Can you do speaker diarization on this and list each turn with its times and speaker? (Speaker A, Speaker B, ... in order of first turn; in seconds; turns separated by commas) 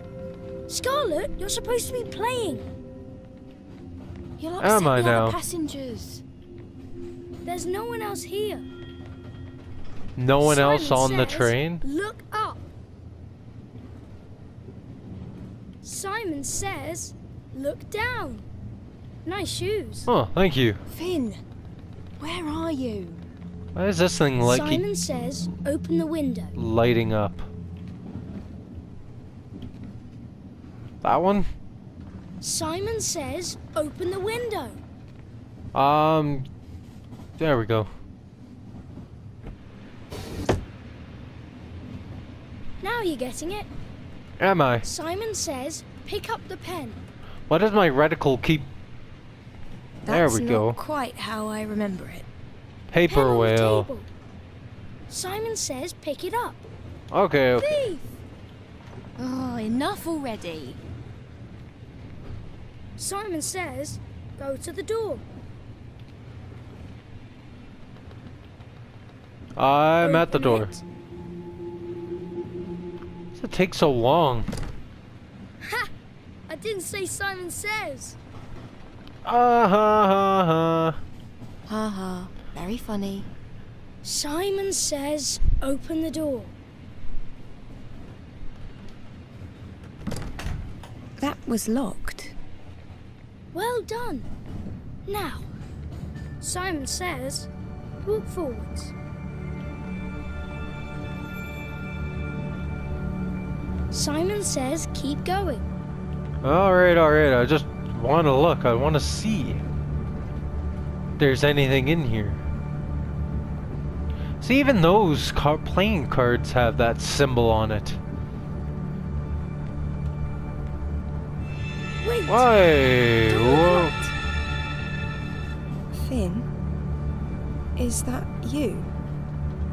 Speaker A: 0.7-2.7, Speaker B: 4.4-6.2, Speaker C: 4.6-5.4, Speaker A: 7.4-8.7, Speaker C: 10.2-11.8, Speaker A: 10.4-12.6, Speaker A: 15.8-18.4, Speaker A: 19.2-20.1, Speaker C: 20.1-20.8, Speaker B: 20.9-21.4, Speaker B: 22.2-23.2, Speaker C: 23.7-24.8, Speaker A: 24.4-26.5, Speaker C: 26.6-27.5, Speaker C: 31.0-31.5, Speaker A: 32.4-34.8, Speaker C: 35.7-36.5, Speaker C: 37.4-37.9, Speaker A: 42.8-43.7, Speaker C: 44.4-44.9, Speaker A: 44.8-47.0, Speaker C: 47.5-48.7, Speaker B: 50.0-52.2, Speaker C: 50.1-50.8, Speaker C: 52.9-53.9, Speaker A: 53.1-54.1, Speaker A: 55.1-56.6, Speaker C: 57.1-57.8, Speaker A: 57.6-58.1, Speaker B: 59.2-60.8, Speaker A: 63.0-65.2, Speaker C: 69.6-70.8, Speaker A: 70.0-70.8, Speaker C: 73.3-74.5, Speaker A: 75.6-75.9, Speaker A: 76.5-78.2, Speaker C: 79.2-81.0, Speaker B: 81.7-83.3, Speaker A: 84.0-86.5, Speaker B: 91.2-92.3, Speaker A: 93.5-94.3, Speaker A: 95.0-95.5, Speaker A: 96.4-97.5, Speaker A: 98.0-98.9, Speaker A: 103.9-105.6, Speaker C: 106.4-109.6, Speaker C: 111.2-112.4, Speaker C: 114.4-118.0, Speaker A: 122.0-122.5, Speaker C: 122.3-123.9, Speaker A: 123.3-124.1, Speaker B: 125.9-126.5, Speaker B: 127.8-128.9